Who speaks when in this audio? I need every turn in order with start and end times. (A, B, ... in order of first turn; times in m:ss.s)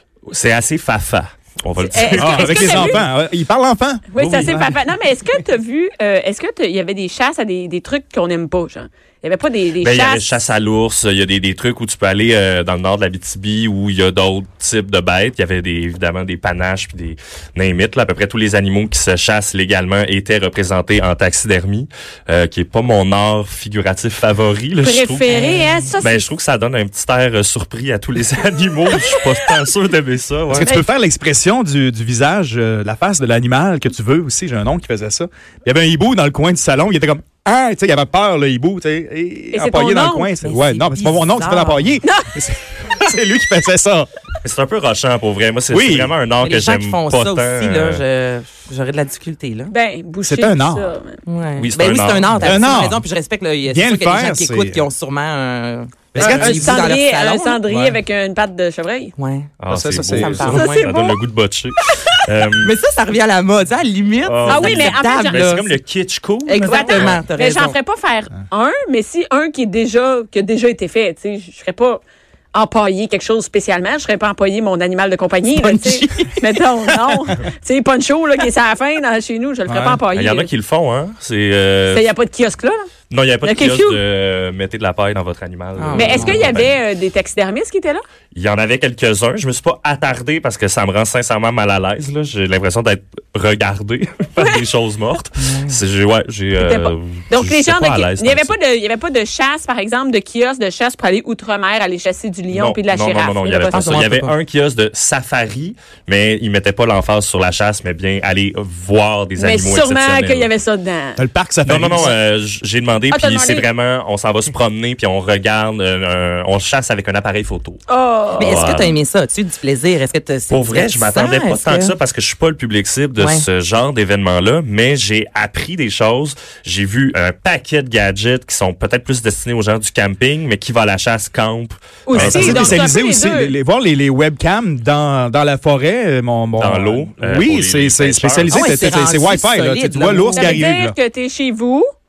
0:00.3-0:03.0 A
0:01.8-0:03.0 B
0:02.1-0:04.7 C
0:04.1-0:10.4 B
0:04.2-0:04.5 A
0:09.8-0:30.7 A
0:24.8-0:26.2 B
0:25.3-0:25.6 D
0:30.5-0:44.1 C
0:39.5-0:40.3 B
0:40.4-0:42.0 D
0:42.0-0:42.3 B
0:44.4-0:48.0 A
0:45.7-0:46.1 C
0:46.4-0:49.7 D
0:49.7-0:51.2 B
0:50.2-0:50.9 C
0:51.2-0:57.9 D
0:51.6-0:52.7 A
0:52.4-0:53.0 C
0:53.6-0:54.8 C
0:56.1-0:57.0 C
0:56.2-0:59.1 B
0:59.2-1:01.0 D
0:59.6-1:02.7 A
0:59.7-1:00.6 C
1:00.5-1:01.2 B
1:01.9-1:05.7 D
1:04.2-1:07.2 A
1:04.4-1:05.5 B
1:06.4-1:07.8 D
1:06.6-1:12.0 B
1:12.5-1:20.5 B
1:15.5-1:16.4 D
1:19.7-1:20.0 C
1:20.1-1:22.1 A
1:21.9-1:22.9 B
1:23.1-1:26.7 A
1:23.4-1:24.0 B
1:25.8-1:26.6 D
1:25.9-1:28.0 B
1:28.3-1:38.5 A
1:35.4-1:35.8 D
1:36.6-1:43.9 B
1:42.5-1:50.5 A
1:43.7-1:44.3 D
1:49.4-1:51.2 B
1:51.2-1:52.2 C
1:51.6-1:57.8 A
1:53.1-1:53.6 B
1:57.9-1:58.7 B
1:58.4-2:01.9 D
1:58.4-1:59.0 A
2:00.5-2:12.8 A
2:03.2-2:03.4 D
2:12.0-2:13.5 B
2:12.1-2:21.0 C
2:16.6-2:18.8 A
2:18.5-2:20.6 D
2:20.3-2:21.9 B